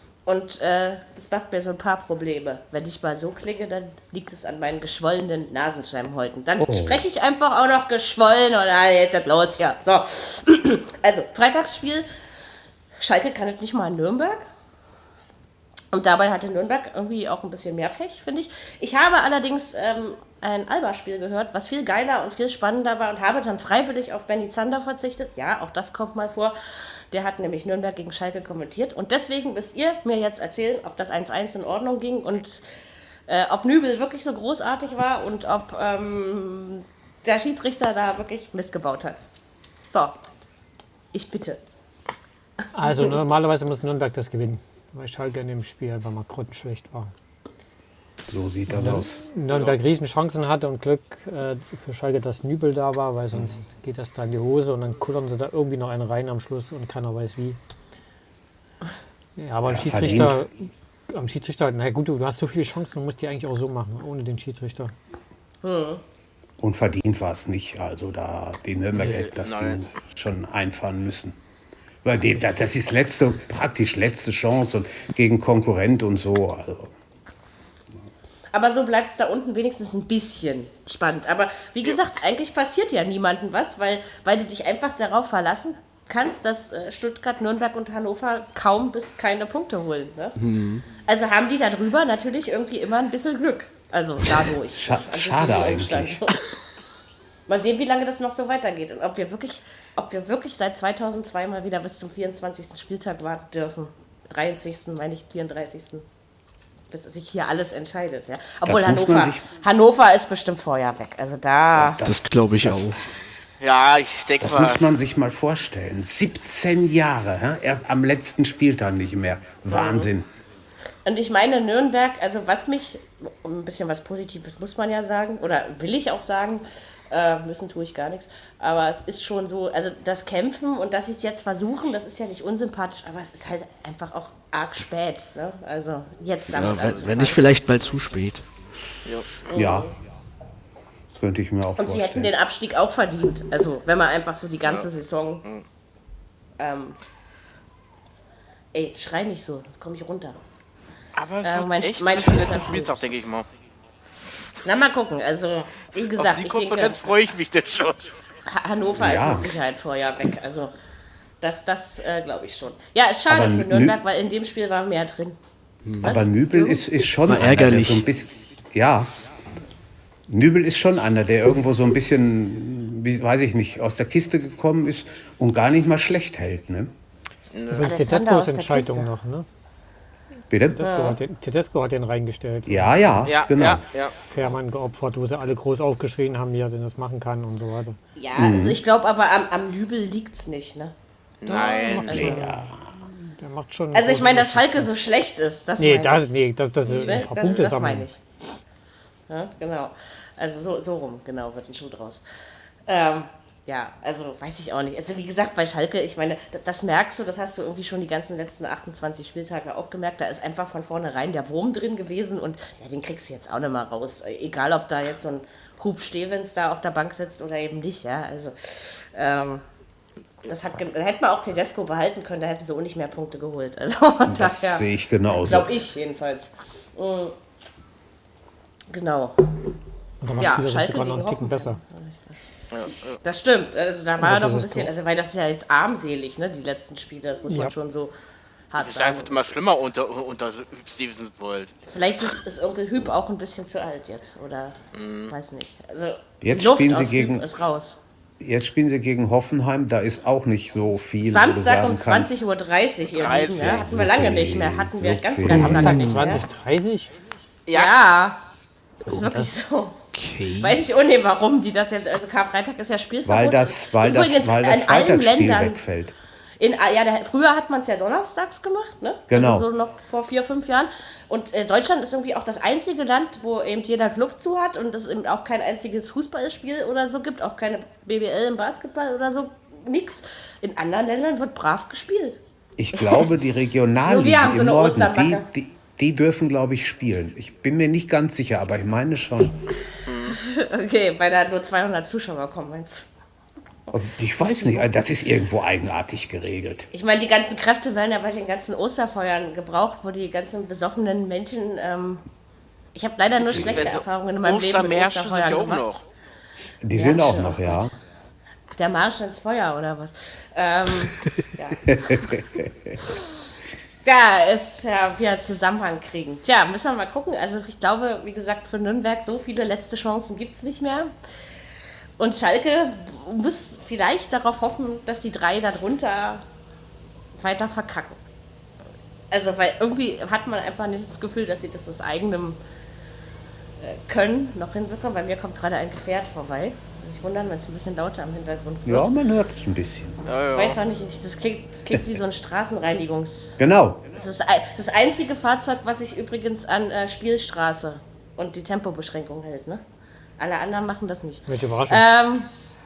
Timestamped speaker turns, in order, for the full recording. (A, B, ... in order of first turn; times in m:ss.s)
0:00.2-0:12.1 A
0:06.6-0:07.0 B
0:13.0-0:14.5 A
0:15.9-0:26.5 A
0:27.1-0:32.6 A
0:33.3-0:39.2 A
0:39.9-0:40.2 A
0:41.1-0:41.6 A
0:42.7-0:47.1 C
0:48.3-0:49.2 B
0:48.7-0:57.6 C
0:49.5-0:49.8 D
0:59.4-1:00.5 C
0:59.6-1:00.4 B
1:01.1-1:04.9 C
1:05.6-1:06.0 A
1:06.6-1:11.4 B
1:09.1-1:09.8 D
1:12.0-1:16.9 B
1:18.5-1:30.4 A
1:30.4-1:30.9 E
1:30.9-1:36.4 A
1:34.7-1:36.2 B
1:37.5-1:46.0 A
1:46.9-1:52.0 A
1:48.6-1:49.4 B
1:51.7-1:52.9 B
1:52.0-1:53.0 E
1:53.6-1:54.8 D
1:54.4-2:00.3 B
1:59.7-2:00.1 A
2:01.0-2:17.5 A
2:16.5-2:18.4 E
2:19.5-2:19.9 A
2:19.5-2:19.9 B
2:21.1-2:22.3 B
2:21.8-2:25.4 A
2:24.6-2:24.9 D
2:26.6-2:27.0 A
2:28.7-2:30.4 A
2:31.1-2:33.4 D
2:31.4-2:33.1 A
2:34.6-2:37.1 A
2:36.2-2:38.1 D
2:38.5-2:40.7 A
2:39.0-2:39.5 B
2:41.4-2:45.4 A
2:43.3-2:44.0 B
2:45.8-2:46.1 E
2:46.0-2:49.1 B
2:46.0-2:46.8 A
2:47.2-2:48.0 E
2:50.3-2:56.9 B
2:57.5-2:57.9 D
2:57.7-2:59.4 C
2:57.8-2:59.1 A
3:00.5-3:00.8 B
3:00.7-3:03.3 C
3:00.8-3:01.2 A
3:02.6-3:03.8 B
3:03.3-3:04.1 D
3:04.2-3:08.0 C
3:08.2-3:10.9 A
3:08.3-3:08.8 B
3:11.4-3:12.3 D
3:11.5-3:14.9 C
3:11.5-3:12.5 A
3:12.1-3:12.8 B
3:13.9-3:16.3 A
3:15.8-3:18.1 C
3:16.8-3:18.2 A
3:19.3-3:22.2 A
3:22.9-3:39.6 A
3:40.4-3:47.4 A
3:44.3-3:45.7 B
3:48.9-3:49.6 A
3:50.2-3:51.8 C
3:50.4-3:52.4 A
3:52.7-3:53.2 D
3:53.2-3:58.1 A
3:54.2-3:54.9 C
3:57.5-3:57.8 C
3:58.7-3:59.8 A
3:58.8-4:01.7 D
4:01.9-4:04.8 A
4:04.9-4:05.3 D
4:05.3-4:08.0 A
4:06.4-4:07.4 B
4:08.4-4:12.4 B
4:11.2-4:16.4 A
4:13.1-4:13.9 D
4:13.5-4:16.1 B
4:15.4-4:17.1 C
4:15.5-4:16.3 E
4:17.7-4:18.0 D
4:17.7-4:18.4 A
4:19.0-4:20.0 A
4:19.1-4:19.5 E
4:20.1-4:20.9 E
4:20.6-4:25.8 A
4:23.2-4:26.1 B
4:26.6-4:42.4 A
4:29.3-4:29.7 B
4:42.8-4:49.6 B
4:44.0-4:45.5 A
4:50.1-4:50.4 D
4:50.3-4:53.1 A
4:53.9-4:56.9 B
4:54.4-4:54.8 A
4:56.9-5:02.2 A
5:02.9-5:06.0 A
5:03.5-5:06.0 D
5:03.5-5:03.9 B
5:06.8-5:07.9 B
5:06.9-5:07.9 A
5:08.8-5:12.3 A
5:11.8-5:12.9 B
5:13.0-5:13.3 A
5:14.0-5:21.1 A
5:22.2-5:26.4 A
5:27.4-5:28.2 A
5:29.3-5:32.6 A
5:33.8-5:39.1 A
5:38.8-5:40.2 B
5:40.2-5:40.8 D
5:40.5-5:43.6 A
5:43.6-5:44.1 B
5:44.1-5:49.8 A
5:50.4-5:52.5 A
5:51.5-5:52.0 C